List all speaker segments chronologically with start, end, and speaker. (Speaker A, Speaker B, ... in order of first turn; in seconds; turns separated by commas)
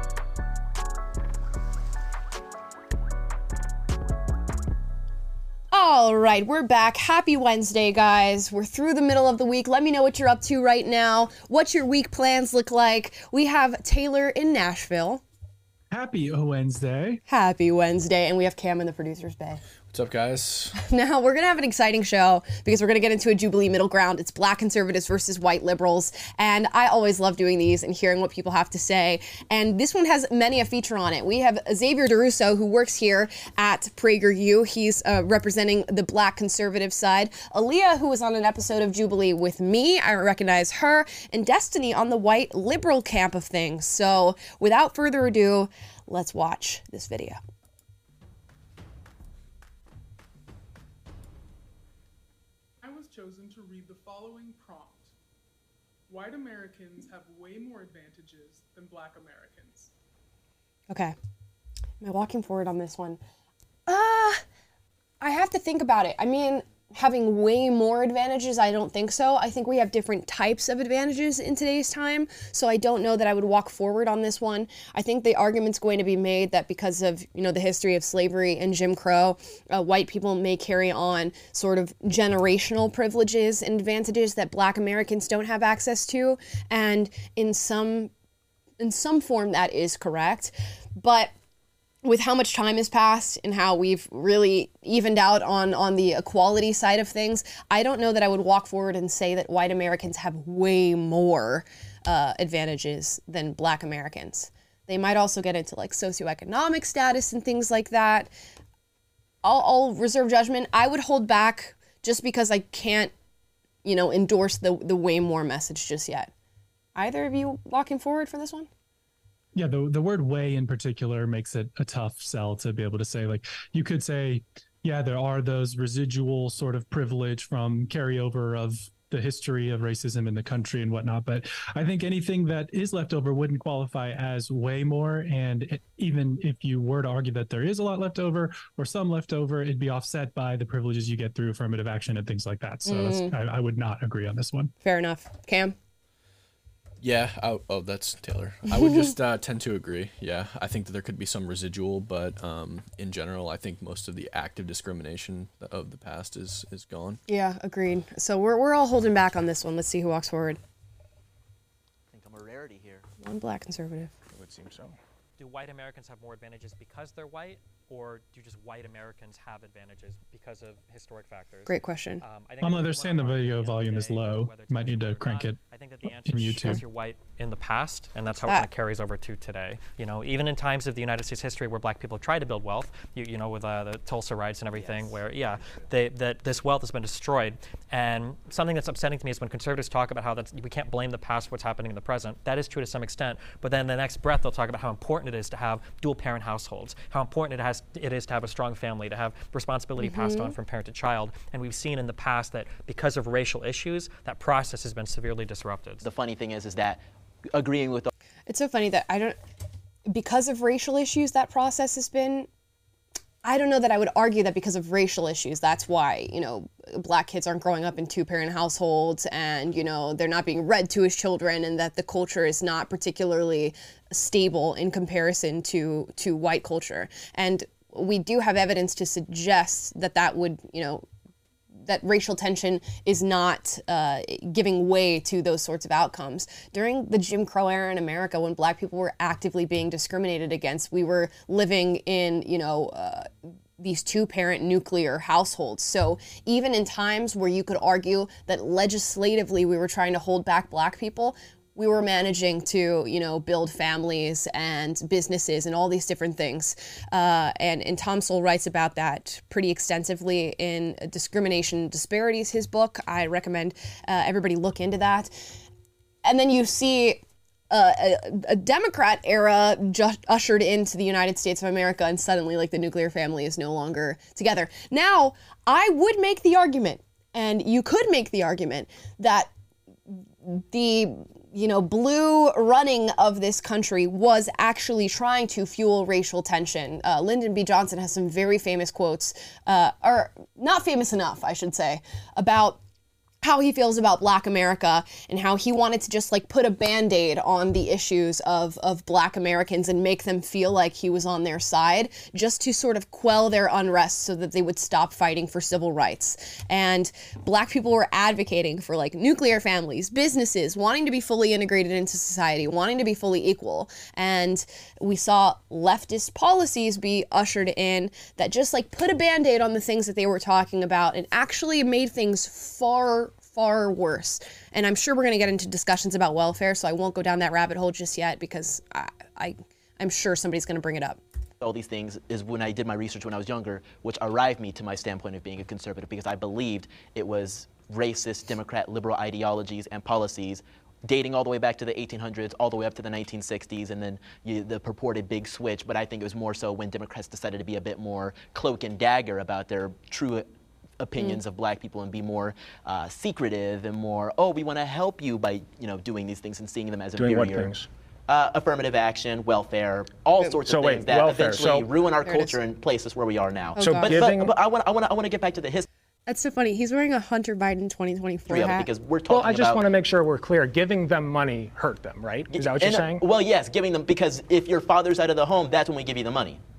Speaker A: 5.7-15.2, Speaker B: 15.9-17.2, Speaker A: 17.3-19.6, Speaker C: 19.9-20.8, Speaker A: 20.8-47.4, Speaker D: 52.8-55.1, Speaker D: 56.1-59.9, Speaker A: 60.9-61.1, Speaker A: 62.0-63.2, Speaker A: 63.9-64.4, Speaker A: 65.2-88.1, Speaker A: 88.8-91.3, Speaker A: 92.0-108.3, Speaker A: 109.4-113.1, Speaker A: 113.8-116.3, Speaker A: 117.0-118.7, Speaker B: 119.5-144.7, Speaker A: 142.8-143.3, Speaker A: 144.8-145.8, Speaker C: 147.0-157.2, Speaker A: 148.7-149.1, Speaker A: 157.3-160.6, Speaker E: 162.1-163.1, Speaker A: 163.2-164.1, Speaker F: 164.3-165.0, Speaker G: 165.4-206.1, Speaker A: 171.7-172.2, Speaker B: 172.6-176.8, Speaker E: 184.7-185.1, Speaker A: 200.0-200.5, Speaker E: 206.0-207.0, Speaker E: 207.5-208.1, Speaker A: 208.5-209.4, Speaker A: 210.1-212.5, Speaker A: 213.4-231.1, Speaker A: 231.8-265.3, Speaker A: 266.2-279.5, Speaker A: 280.1-292.8, Speaker A: 293.4-331.2, Speaker E: 331.6-350.5, Speaker E: 351.0-357.7, Speaker F: 357.1-357.9, Speaker E: 358.3-365.9, Speaker F: 360.6-361.9, Speaker A: 362.2-362.6, Speaker A: 363.8-364.2, Speaker F: 363.8-364.5, Speaker A: 366.3-368.9, Speaker E: 368.5-369.8, Speaker F: 369.3-373.2, Speaker E: 372.5-376.6